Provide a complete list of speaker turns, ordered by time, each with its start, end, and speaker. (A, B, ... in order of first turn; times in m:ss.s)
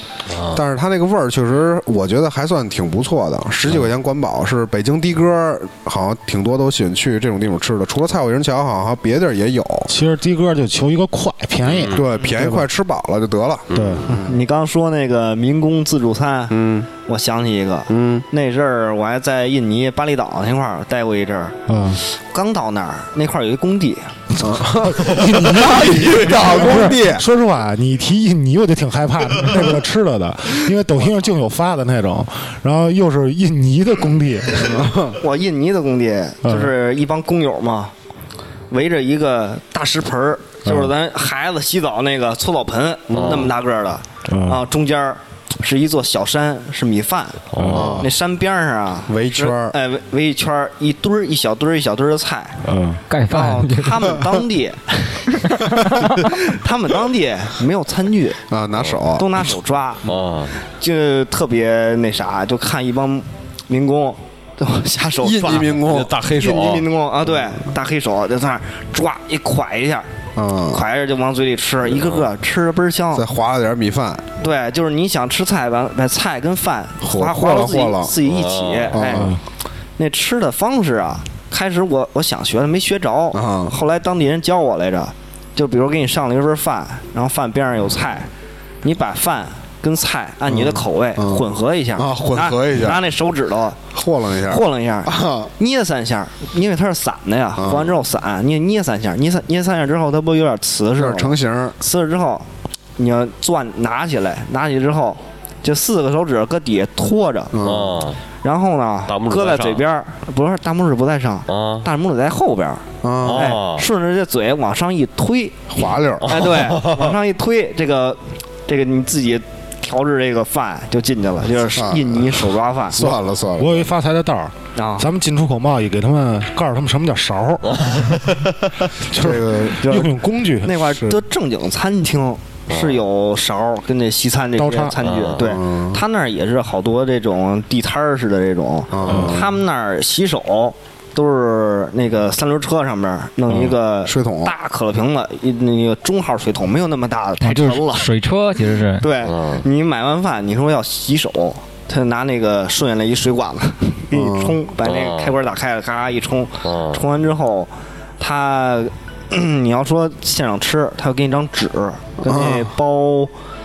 0:00.3-0:00.6 A
0:00.5-0:09.9 B
0:09.9-0:12.7 C
0:11.6-0:12.0 A
0:11.9-0:14.4 B
0:13.7-0:14.1 A
0:13.7-0:14.1 C
0:14.2-0:24.1 D
0:16.5-0:16.9 B
0:17.9-0:18.2 B
0:21.7-0:22.0 C
0:24.3-0:34.8 C
0:24.4-0:27.2 B
0:34.6-0:35.2 B
0:35.2-0:37.9 D
0:36.4-0:36.7 C
0:38.7-0:52.6 D
0:40.6-0:40.9 C
0:43.1-0:43.5 B
0:43.1-0:43.5 A
0:44.3-0:44.6 C
0:47.5-0:48.0 A
0:47.6-0:48.0 C
0:47.7-0:48.1 B
0:49.1-0:49.8 B
0:52.6-0:53.0 C
0:53.1-0:54.2 E
0:53.3-0:58.4 D
0:55.4-0:56.2 E
0:58.5-0:59.4 B
0:59.2-1:00.1 D
1:00.0-1:00.6 A
1:00.6-1:05.7 D
1:05.2-1:06.2 B
1:05.4-1:06.9 A
1:06.3-1:10.1 D
1:10.4-1:10.8 B
1:10.7-1:13.2 D
1:11.9-1:12.2 A
1:13.1-1:14.3 B
1:14.4-1:19.3 D
1:17.0-1:18.2 B
1:18.2-1:19.0 A
1:18.9-1:19.3 B
1:20.0-1:28.3 D
1:23.3-1:23.7 B
1:28.8-1:33.8 D
1:30.5-1:33.0 B
1:33.9-1:35.5 B
1:34.4-1:47.5 D
1:37.6-1:37.9 B
1:41.0-1:41.8 B
1:47.5-1:48.1 B
1:47.6-1:48.2 A
1:48.4-1:55.7 D
1:49.1-1:49.8 A
1:51.5-1:51.8 A
1:53.0-1:53.6 B
1:53.2-1:53.9 A
1:55.7-1:56.5 B
1:56.2-2:03.0 D
1:56.2-1:57.1 A
2:01.8-2:02.3 B
2:02.9-2:03.9 B
2:02.9-2:07.8 C
2:04.7-2:05.0 D
2:07.6-2:08.7 A
2:09.1-2:10.0 B
2:09.1-2:11.0 C
2:09.8-2:28.1 D
2:12.7-2:13.0 A
2:14.6-2:15.0 C
2:15.0-2:15.5 A
2:15.4-2:16.0 B
2:18.9-2:19.5 B
2:23.6-2:24.5 B
2:27.4-2:29.1 E
2:29.0-2:43.3 D
2:29.2-2:29.6 A
2:34.1-2:34.6 B
2:34.8-2:35.3 A
2:36.6-2:37.0 A
2:42.2-2:42.7 B